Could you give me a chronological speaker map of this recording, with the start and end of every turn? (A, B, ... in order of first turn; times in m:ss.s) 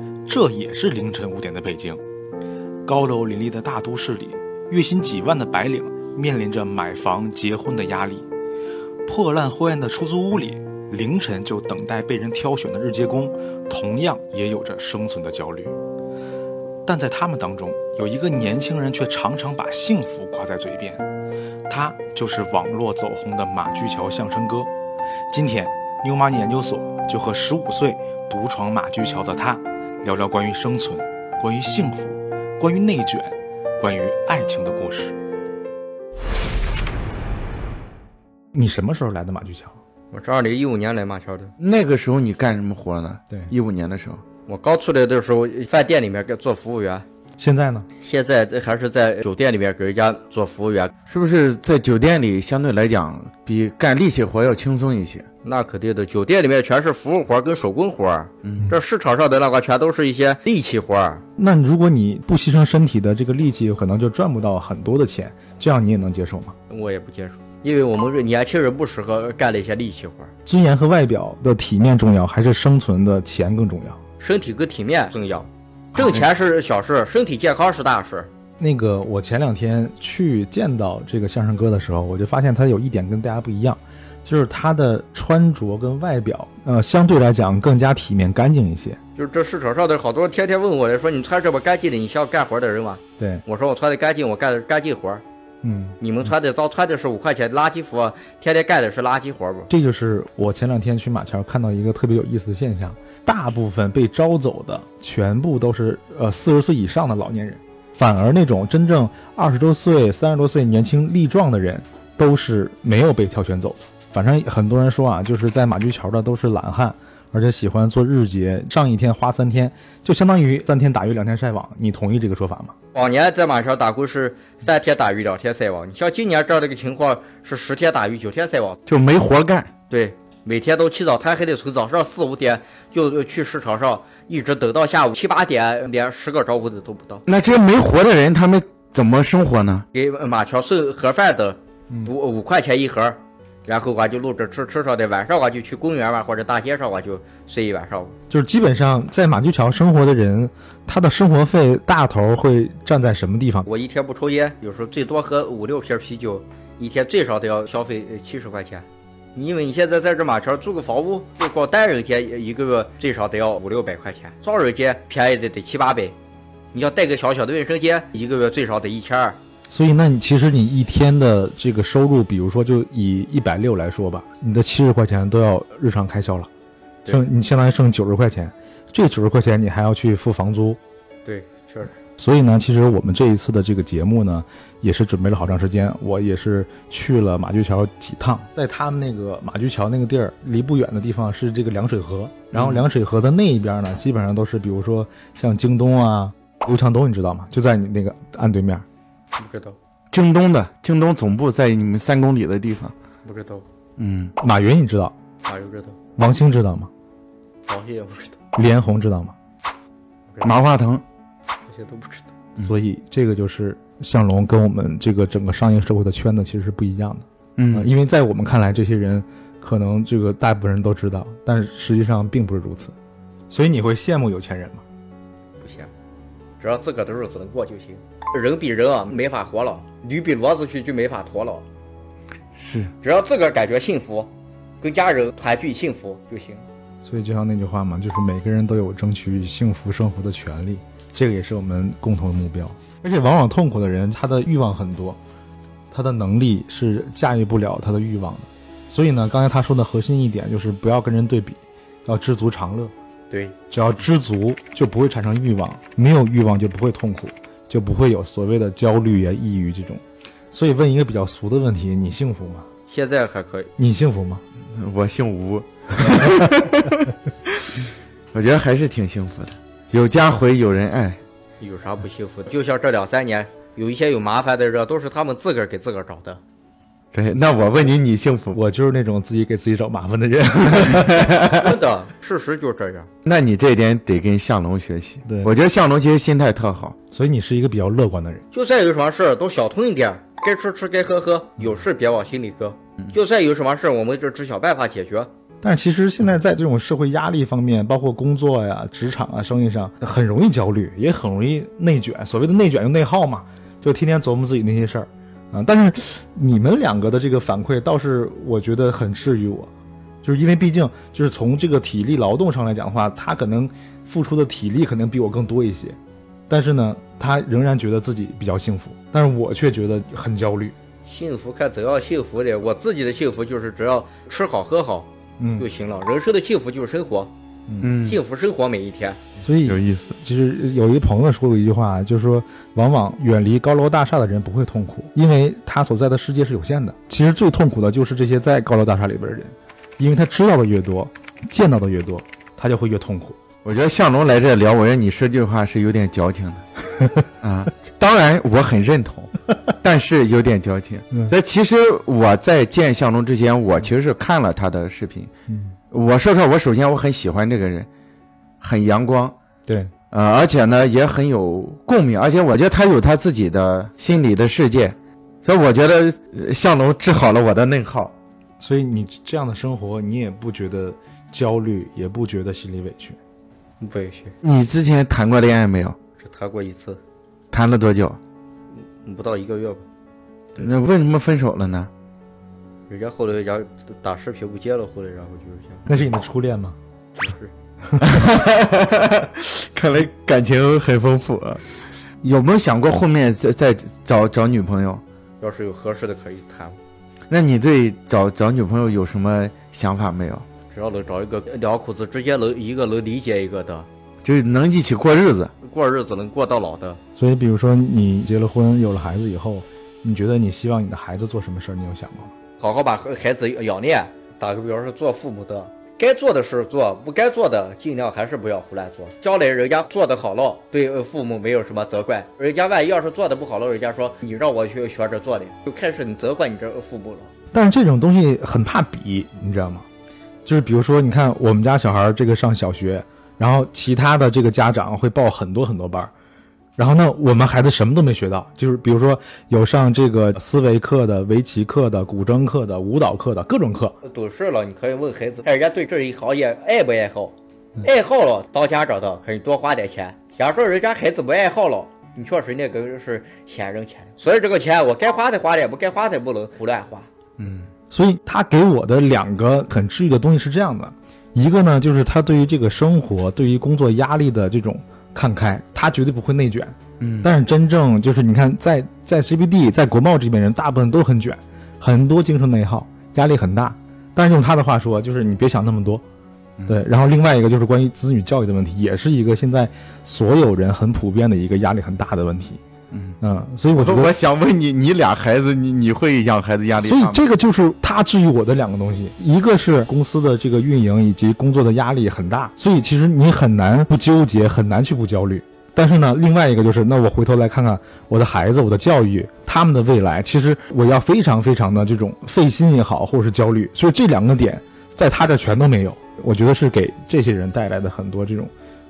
0:00.2-0:02.0 A
0:02.8-0:08.3 A
0:09.0-0:15.8 A
0:16.8-0:21.0 A
0:21.7-0:24.7 A
0:25.3-0:35.2 A
0:38.5-0:39.8 A
0:40.1-0:41.5 B
0:41.6-0:44.2 C
0:44.4-0:47.0 B
0:47.4-0:47.9 A
0:48.0-0:50.9 B
0:51.1-0:55.2 C
0:55.4-1:01.2 B
1:01.4-1:06.6 A
1:06.7-1:10.3 B
1:10.4-1:14.0 A
1:14.2-1:18.3 B
1:15.9-1:16.2 C
1:18.6-1:29.0 A
1:29.2-1:35.2 B
1:33.2-1:33.4 A
1:35.6-1:36.0 A
1:36.0-1:39.7 B
1:39.7-2:02.7 A
2:02.9-2:08.8 B
2:08.9-2:09.7 C
2:09.9-2:17.2 B
2:17.2-2:19.8 C
2:19.9-2:28.2 B
2:28.3-2:33.7 A
2:33.6-2:46.2 B
2:46.7-2:49.4 B
2:49.7-2:56.5 A
2:57.1-3:00.8 A
3:01.2-3:01.9 B
3:02.1-3:18.8 A
3:12.5-3:12.8 C
3:19.3-3:19.8 B
3:20.1-3:22.9 C
3:23.2-3:23.6 B
3:24.0-3:24.3 C
3:24.4-3:25.1 A
3:25.4-3:26.0 B
3:26.2-3:26.9 A
3:27.7-3:28.4 B
3:28.5-3:29.3 A
3:30.4-3:31.0 C
3:31.6-3:32.3 B
3:32.6-3:42.9 A
3:37.6-3:37.9 C
3:43.5-3:44.8 A
3:45.6-3:45.9 B
3:46.6-3:51.6 B
3:52.5-3:52.9 C
3:53.0-3:56.6 B
3:57.0-4:05.2 A
4:05.9-4:12.9 A
4:13.3-4:13.6 B
4:13.7-4:22.7 A
4:22.9-4:23.7 B
4:23.8-4:24.4 A
4:24.7-4:27.1 C
4:28.3-4:31.2 C
4:31.6-4:36.4 B
4:37.1-4:38.6 C
4:38.5-4:41.5 A
4:41.1-4:41.6 C
4:41.5-4:43.1 B
4:43.2-4:46.9 C
4:45.2-4:45.5 A
4:47.1-4:48.4 A
4:48.5-4:55.3 B
4:55.6-5:09.7 A
5:10.2-5:16.0 A
5:16.5-5:20.7 A
5:21.0-5:27.3 B
5:25.4-5:25.7 A
5:27.8-5:28.2 C
5:28.0-5:29.2 B
5:29.4-5:43.4 A
5:29.6-5:30.2 C
5:43.6-5:46.6 C
5:47.4-5:55.3 C
5:55.5-5:55.8 A
5:55.9-5:57.9 C
5:58.6-5:59.3 C
5:59.6-5:59.9 A
6:00.1-6:08.1 C
6:08.6-6:13.2 A
6:13.8-6:14.3 B
6:14.4-6:16.0 C
6:16.2-6:17.0 B
6:17.5-6:18.2 C
6:19.0-6:19.8 B
6:20.6-6:21.9 C
6:22.9-6:25.8 B
6:25.9-6:26.8 A
6:27.2-6:27.5 B
6:28.0-6:31.6 C
6:32.2-6:35.0 C
6:35.4-6:36.8 B
6:37.3-6:40.4 C
6:40.7-6:43.9 B
6:44.2-6:45.5 C
6:45.6-6:47.0 B
6:47.2-6:52.3 A
6:52.6-7:07.3 B
7:07.5-7:09.8 A
7:10.4-7:16.1 A
7:16.8-7:24.0 A
7:24.0-7:37.1 B
7:37.4-7:37.7 C
7:37.9-7:56.0 A
7:47.0-7:47.3 C
7:56.6-7:56.8 C
7:56.7-8:02.6 A
8:02.9-8:03.2 C
8:03.2-8:04.1 A
8:03.7-8:07.2 C
8:06.8-8:28.5 A